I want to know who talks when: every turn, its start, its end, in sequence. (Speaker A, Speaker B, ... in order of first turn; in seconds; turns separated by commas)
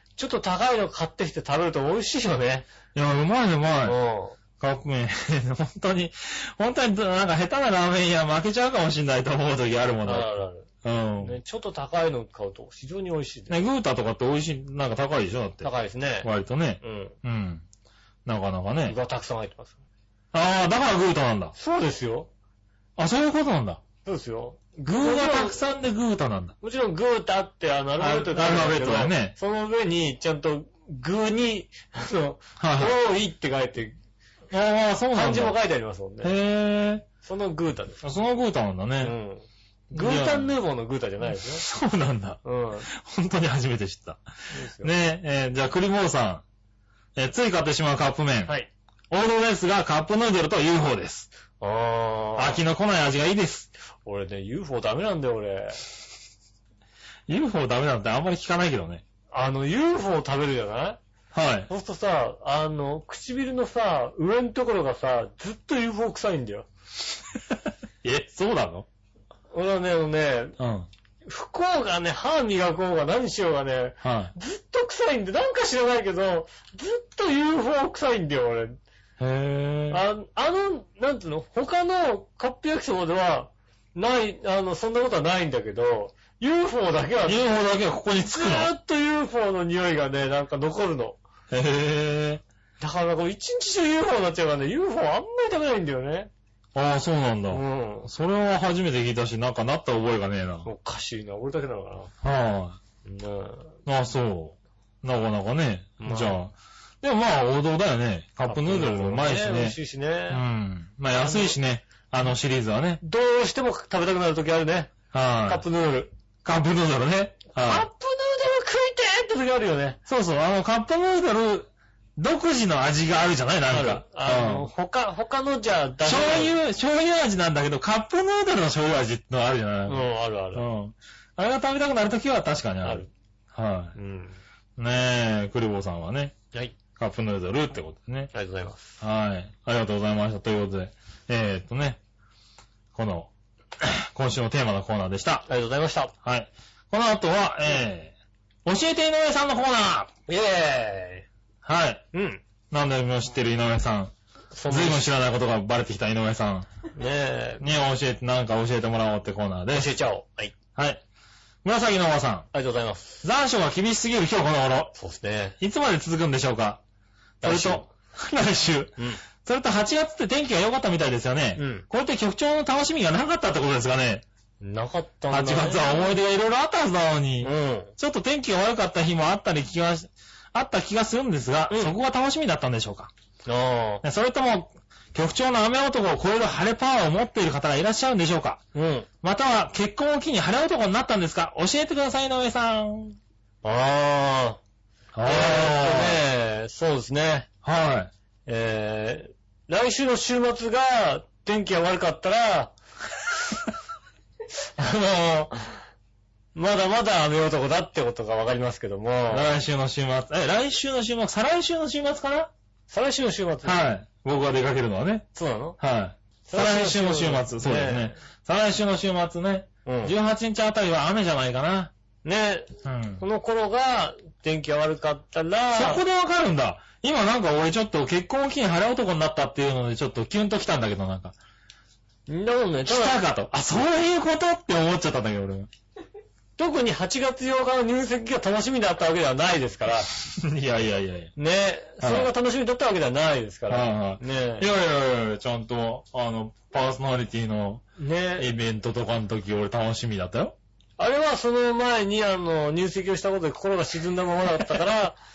Speaker A: 0.2-2.7, Speaker B: 2.9-4.0, Speaker A: 3.8-4.4, Speaker B: 4.6-11.4, Speaker A: 10.0-10.7, Speaker A: 11.2-13.6, Speaker B: 13.5-15.7, Speaker A: 15.6-16.3, Speaker B: 16.2-17.6, Speaker A: 16.8-17.1, Speaker B: 18.2-18.9, Speaker A: 18.9-19.8, Speaker B: 20.3-21.5, Speaker A: 21.6-22.3, Speaker B: 23.0-23.8, Speaker A: 24.0-25.6, Speaker B: 24.9-26.5, Speaker A: 26.6-33.9, Speaker B: 28.0-29.3, Speaker B: 32.6-33.0, Speaker B: 34.5-35.6, Speaker A: 35.1-36.3, Speaker B: 36.2-37.1, Speaker A: 37.2-38.0, Speaker B: 38.0-39.1, Speaker A: 39.0-41.6, Speaker B: 39.9-40.5, Speaker B: 41.4-44.2, Speaker A: 42.4-42.9, Speaker A: 44.5-44.9, Speaker B: 44.8-46.4, Speaker B: 47.1-48.5, Speaker B: 49.1-51.3, Speaker A: 51.6-52.6, Speaker B: 52.4-53.7, Speaker A: 54.0-55.8, Speaker B: 57.3-59.0, Speaker A: 59.3-61.0, Speaker B: 61.3-61.7, Speaker A: 61.7-66.7, Speaker B: 68.0-68.8, Speaker A: 69.5-70.6, Speaker B: 70.6-70.9, Speaker A: 71.2-78.8, Speaker B: 74.0-74.3, Speaker B: 79.2-80.0, Speaker A: 79.9-87.4, Speaker B: 87.2-88.7, Speaker A: 88.3-91.2, Speaker B: 91.5-92.4, Speaker A: 92.8-96.3, Speaker B: 96.7-100.7, Speaker A: 97.5-98.1, Speaker A: 100.6-102.1, Speaker B: 102.2-102.8, Speaker A: 103.0-103.8, Speaker B: 103.8-109.8, Speaker A: 106.0-106.4, Speaker A: 108.5-110.4, Speaker B: 110.3-113.0, Speaker A: 111.1-111.6, Speaker A: 113.0-114.9, Speaker B: 115.1-115.6, Speaker A: 115.5-116.1, Speaker B: 116.4-117.9, Speaker A: 117.6-120.0, Speaker B: 120.1-124.7, Speaker A: 123.7-126.6, Speaker B: 126.0-133.9, Speaker A: 129.8-130.7, Speaker A: 132.8-133.1, Speaker A: 133.9-134.4, Speaker B: 134.8-136.3, Speaker B: 137.0-138.3, Speaker A: 138.3-138.9, Speaker B: 139.0-142.0, Speaker B: 142.9-145.4, Speaker A: 145.5-146.1, Speaker B: 146.2-148.1, Speaker B: 148.6-150.1, Speaker A: 150.3-151.2, Speaker B: 151.6-152.0, Speaker A: 152.1-152.4, Speaker B: 152.7-154.1, Speaker A: 154.5-155.1, Speaker B: 154.7-156.7, Speaker A: 156.9-157.6, Speaker B: 157.6-159.9, Speaker A: 159.7-160.5, Speaker B: 160.8-161.0, Speaker B: 161.6-162.5, Speaker A: 162.5-163.2, Speaker B: 163.2-164.9, Speaker A: 164.9-165.6, Speaker B: 165.6-166.8, Speaker A: 167.4-167.9, Speaker B: 167.4-174.2, Speaker A: 171.6-171.8, Speaker A: 174.6-176.1, Speaker B: 175.3-183.1, Speaker A: 177.4-177.9, Speaker A: 181.7-181.9, Speaker A: 183.4-184.0, Speaker B: 184.0-188.6, Speaker A: 188.7-189.1, Speaker B: 189.2-193.2, Speaker A: 193.6-194.6, Speaker B: 195.1-196.2, Speaker A: 195.2-197.5, Speaker B: 197.6-198.1, Speaker A: 198.4-202.7, Speaker A: 204.8-205.8, Speaker A: 206.5-209.5, Speaker B: 209.3-212.5, Speaker A: 212.9-213.8, Speaker B: 213.6-215.2, Speaker A: 215.3-215.8, Speaker B: 215.8-221.9, Speaker A: 216.4-218.2, Speaker A: 219.8-220.1, Speaker A: 222.2-226.0, Speaker B: 222.8-223.2, Speaker B: 225.7-231.3, Speaker A: 232.3-233.2, Speaker B: 232.9-235.7, Speaker A: 236.6-240.1, Speaker B: 240.1-241.3, Speaker A: 241.3-244.7, Speaker B: 242.0-242.3, Speaker B: 243.7-247.8, Speaker A: 248.0-248.5, Speaker B: 248.4-250.5, Speaker A: 251.0-255.2